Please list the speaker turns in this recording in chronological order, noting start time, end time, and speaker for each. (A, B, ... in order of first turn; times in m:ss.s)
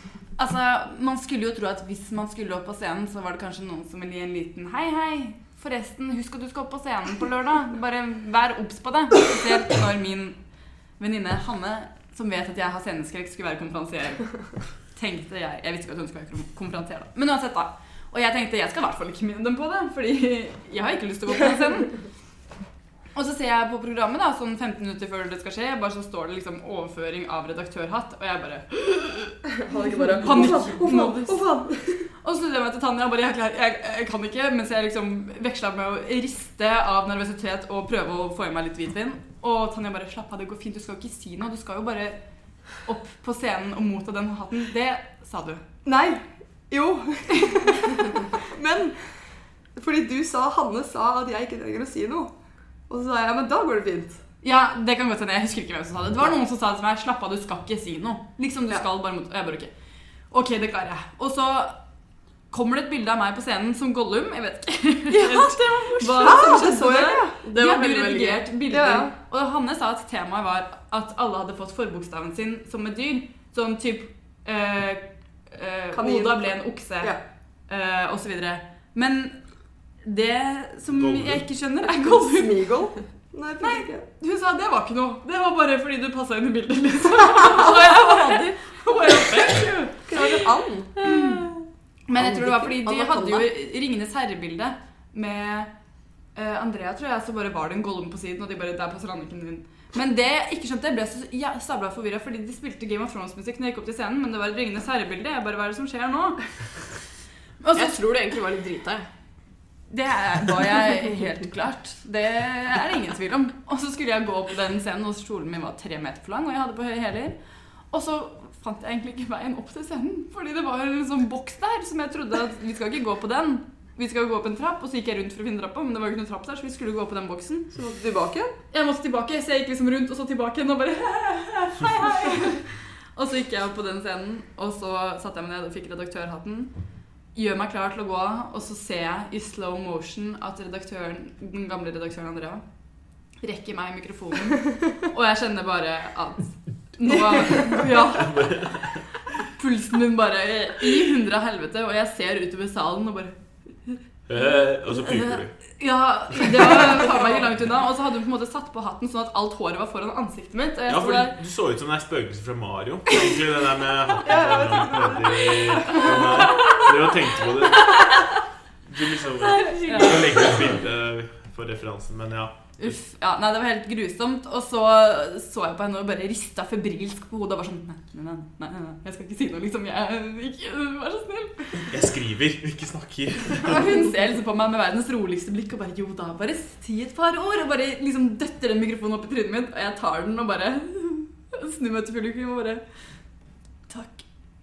0:00.4-0:10.4 A
0:11.0-0:22.1 A
0:23.1-0:29.4 A
0:29.6-0:32.1 B
0:30.1-0:31.4 A
0:32.2-0:45.6 A
0:45.8-0:52.3 B
0:52.9-0:54.2 B
0:54.4-0:59.7 A
1:00.3-1:01.8 A
1:02.5-1:22.7 A
1:05.2-1:07.4 B
1:07.4-1:08.5 C
1:08.7-1:09.1 B
1:15.9-1:17.2 B
1:20.9-1:21.5 D
1:21.8-1:24.1 B
1:23.6-1:30.2 A
1:28.0-1:28.5 C
1:30.1-1:31.0 B
1:31.0-1:31.6 C
1:31.0-1:31.5 A
1:32.1-1:35.7 A
1:32.1-1:32.8 B
1:32.8-1:33.5 C
1:36.4-1:46.9 A
1:47.6-1:48.0 A
1:47.7-1:49.1 C
1:49.9-1:57.4 A
1:57.9-2:07.7 A
2:07.7-2:08.5 B
2:08.7-2:16.8 A
2:17.3-2:22.7 A
2:23.3-2:28.5 A
2:28.1-2:29.1 D
2:29.5-2:33.4 A
2:33.9-2:41.4 A
2:34.3-2:35.5 D
2:40.9-2:48.3 D
2:44.2-2:46.3 B
2:45.9-2:47.0 A
2:47.8-2:48.2 A
2:48.8-2:53.0 D
2:49.5-2:50.7 C
2:49.6-2:50.6 A
2:52.8-3:02.0 A
3:01.9-3:03.8 D
3:03.6-3:12.8 A
3:13.9-3:14.3 A